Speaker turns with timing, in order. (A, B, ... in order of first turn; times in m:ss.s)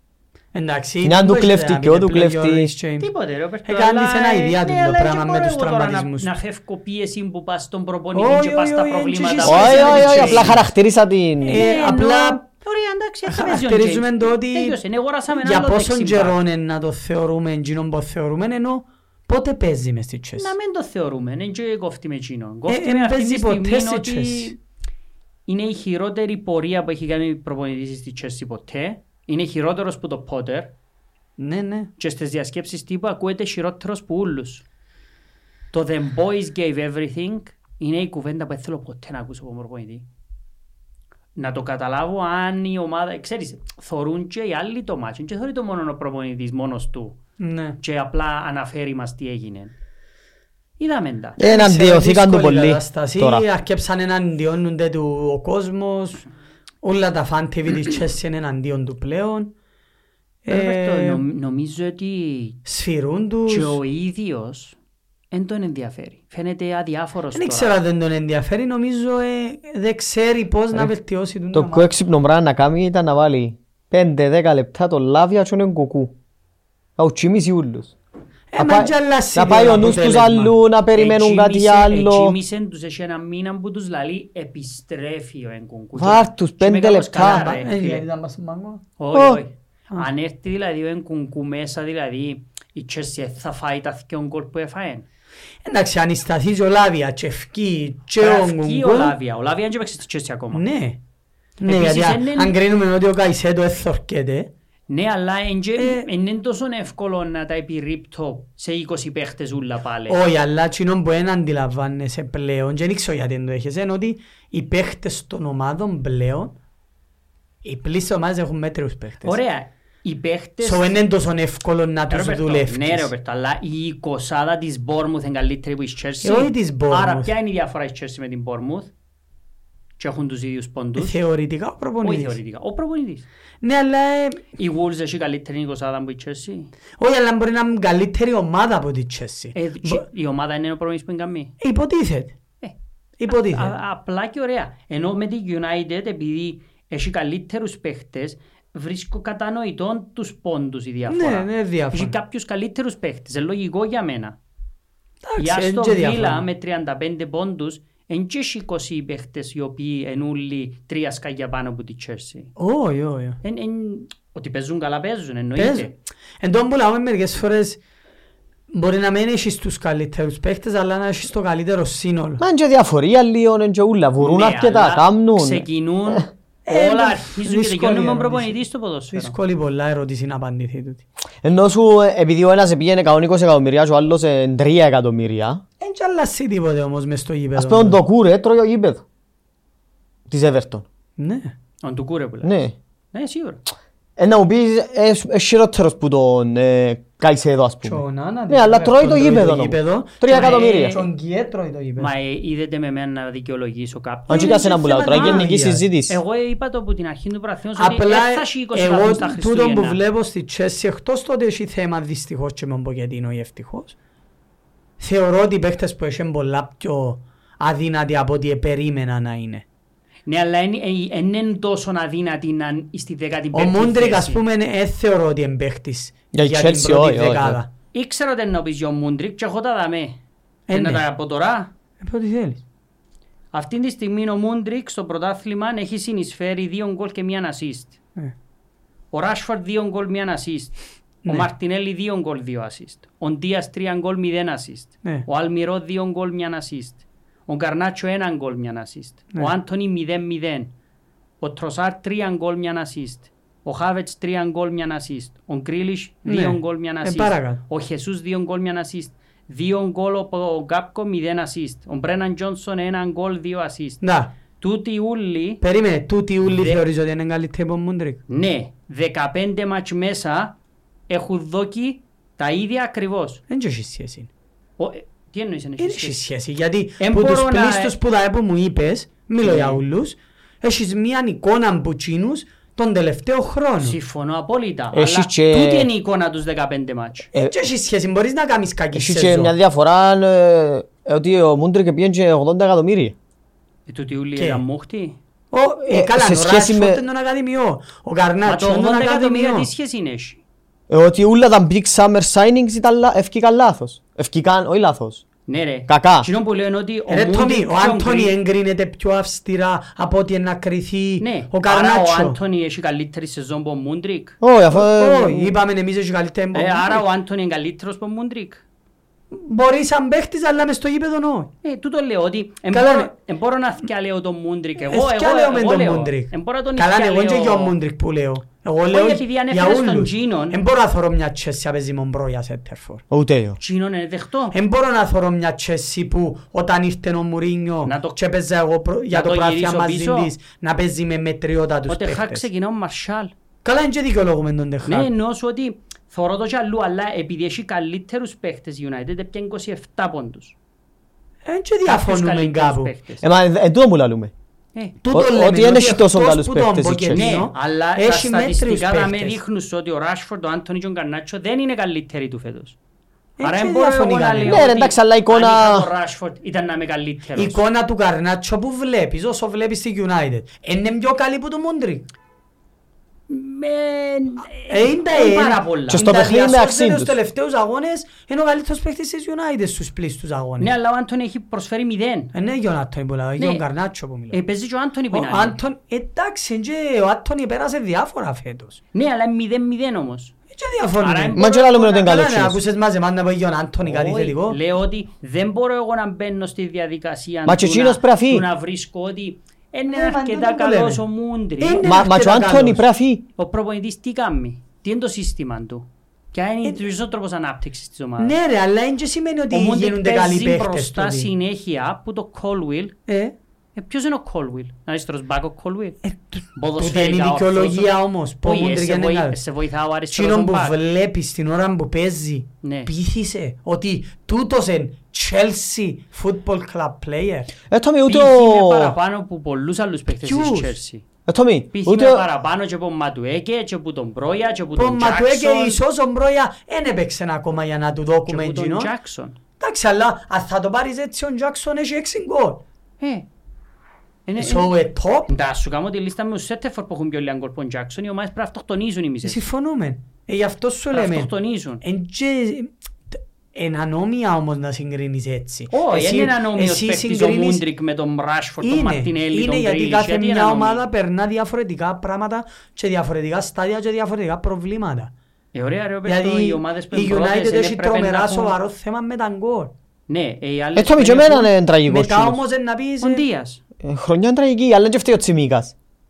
0:00.5-0:03.1 A
0:01.0-0:02.7 B
0:03.0-0:10.6 C
0:03.6-0:06.3 A
0:08.2-0:10.6 A
0:09.4-0:11.7 B
0:11.4-0:12.5 A
0:11.5-0:16.4 C
0:13.3-0:14.8 A
0:15.3-0:20.6 A
0:20.4-0:24.6 C
0:22.7-0:24.6 A
0:25.5-0:30.7 C
0:31.4-0:31.9 A
0:32.0-0:34.6 C
0:35.7-0:40.0 C
0:41.4-0:47.2 C
0:47.4-0:47.8 A
0:47.8-0:49.7 C
0:50.8-0:51.4 C
0:51.4-0:53.4 B
0:51.4-0:56.3 A
0:56.8-0:59.5 A
1:00.4-1:01.2 A
1:00.5-1:02.6 C
1:02.7-1:03.8 A
1:03.5-1:04.8 C
1:05.3-1:07.8 C
1:07.4-1:11.9 A
1:11.5-1:16.1 B
1:17.0-1:17.9 B
1:18.5-1:20.6 A
1:18.6-1:22.4 B
1:21.0-1:28.0 C
1:26.0-1:27.5 B
1:27.2-1:28.8 A
1:29.0-1:35.1 C
1:29.1-1:29.4 B
1:35.6-1:39.2 A
1:38.2-1:40.7 C
1:40.5-1:41.0 A
1:41.6-1:44.5 A
1:41.6-1:42.6 C
1:44.9-1:50.2 C
1:45.8-1:46.1 A
1:50.1-1:56.6 A
1:57.6-1:59.4 A
1:59.2-2:00.9 C
2:00.6-2:03.1 A
2:02.1-2:08.9 C
2:06.2-2:07.3 A
2:10.0-2:11.2 C
2:11.0-2:12.4 A
2:12.0-2:13.3 C
2:13.6-2:14.5 A
2:14.6-2:16.7 C
2:17.0-2:20.0 A
2:19.6-2:21.5 C
2:21.6-2:22.3 A
2:23.2-2:23.8 A
2:23.3-2:34.4 C
2:31.1-2:32.2 A
2:35.2-2:36.5 A
2:35.4-2:42.5 C
2:42.6-2:43.4 A
2:43.4-2:45.9 C
2:45.6-2:47.8 A
2:48.7-2:52.4 A
2:52.4-2:56.2 B
2:54.2-2:59.4 C
2:56.7-2:58.6 A
2:59.1-3:01.0 A
3:01.4-3:05.6 B
3:05.8-3:08.0 A
3:07.6-3:09.0 B
3:10.3-3:10.8 B
3:11.2-3:11.5 A
3:11.8-3:12.6 C
3:12.4-3:12.8 B
3:13.1-3:13.6 C
3:14.2-3:21.0 B
3:17.8-3:22.1 A
3:20.3-3:21.1 C
3:22.0-3:25.5 C
3:24.3-3:26.2 B
3:24.3-3:25.8 A
3:26.1-3:30.0 C
3:27.8-3:34.0 A
3:35.0-3:39.6 A
3:40.3-3:44.4 C
3:43.5-3:47.7 A
3:46.3-3:47.6 B
3:47.9-3:50.2 C
3:50.7-3:51.0 A
3:50.7-3:51.7 C
3:52.0-3:52.6 A
3:53.5-3:58.0 C
3:59.1-4:10.7 C
4:11.4-4:24.0 C
4:16.3-4:17.6 A
4:24.0-4:24.3 A
4:24.6-4:25.6 C
4:25.6-4:28.2 A
4:26.5-4:26.8 C
4:28.3-4:30.6 C
4:31.1-4:33.4 C
4:33.5-4:34.3 A
4:34.8-4:36.2 C
4:35.8-4:44.0 A
4:37.0-4:37.9 C
4:39.4-4:39.8 C
4:43.8-4:47.3 C
4:44.9-4:45.9 B
4:47.3-4:49.5 A
4:48.9-4:53.2 B
4:53.9-4:55.2 C
4:54.4-4:54.6 A
4:55.5-4:59.7 A
4:55.9-4:57.0 B
4:58.4-5:00.4 C
5:00.9-5:05.2 B
5:05.5-5:08.3 C
5:05.9-5:06.3 B
5:07.1-5:12.4 A
5:11.2-5:14.4 C
5:14.4-5:15.6 B
5:14.7-5:17.0 A
5:16.5-5:18.6 C
5:19.3-5:21.5 A
5:21.6-5:27.8 C
5:22.7-5:23.1 A
5:24.9-5:33.0 A
5:28.9-5:30.6 C
5:33.1-5:33.6 B
5:33.6-5:34.6 C
5:34.5-5:42.5 A
5:37.8-5:38.2 C
5:39.1-5:40.3 C
5:41.9-5:43.3 C
5:43.6-5:45.1 A
5:44.8-5:50.6 C
5:51.4-5:52.9 A
5:51.9-5:53.2 C
5:53.2-5:54.3 B
5:55.0-5:59.4 A
5:55.1-5:57.3 B
5:57.1-6:02.8 C
6:03.4-6:04.7 A
6:03.4-6:07.6 C
6:04.4-6:05.9 B
6:07.4-6:12.1 A
6:13.3-6:16.1 C
6:14.7-6:20.7 A
6:15.9-6:17.2 B
6:20.6-6:22.3 C
6:22.3-6:24.4 A
6:23.4-6:23.6 C
6:24.3-6:25.6 C
6:25.1-6:28.8 A
6:28.9-6:30.3 C
6:30.5-6:34.6 A
6:31.0-6:32.1 C
6:31.4-6:32.6 B
6:33.8-6:41.9 C
6:37.5-6:38.5 B
6:39.9-6:41.0 A
6:41.6-6:42.8 A
6:41.8-6:43.2 B
6:43.4-6:48.4 C
6:48.2-6:51.3 A
6:49.5-6:52.9 C
6:53.1-6:53.4 A
6:53.8-6:56.0 C
6:56.0-6:59.4 A
6:56.6-6:57.9 C
6:58.4-7:00.8 C
7:00.1-7:07.5 A
7:02.6-7:02.9 C
7:07.7-7:09.0 B
7:08.1-7:11.0 C
7:10.2-7:10.7 A
7:11.3-7:12.2 B
7:11.7-7:15.8 C
7:14.8-7:18.9 A
7:18.3-7:19.4 C
7:19.6-7:22.6 A
7:23.0-7:23.3 C
7:24.3-7:24.8 C
7:24.4-7:25.3 A
7:25.3-7:29.4 C
7:29.2-7:37.6 A
7:30.9-7:31.8 C
7:35.7-7:40.8 C
7:38.6-7:45.1 A
7:45.5-7:48.6 C
7:46.0-7:49.7 A
7:50.1-7:51.5 C
7:50.8-7:52.4 B
7:51.9-7:53.2 A
7:53.0-7:53.6 C
7:53.8-7:55.7 B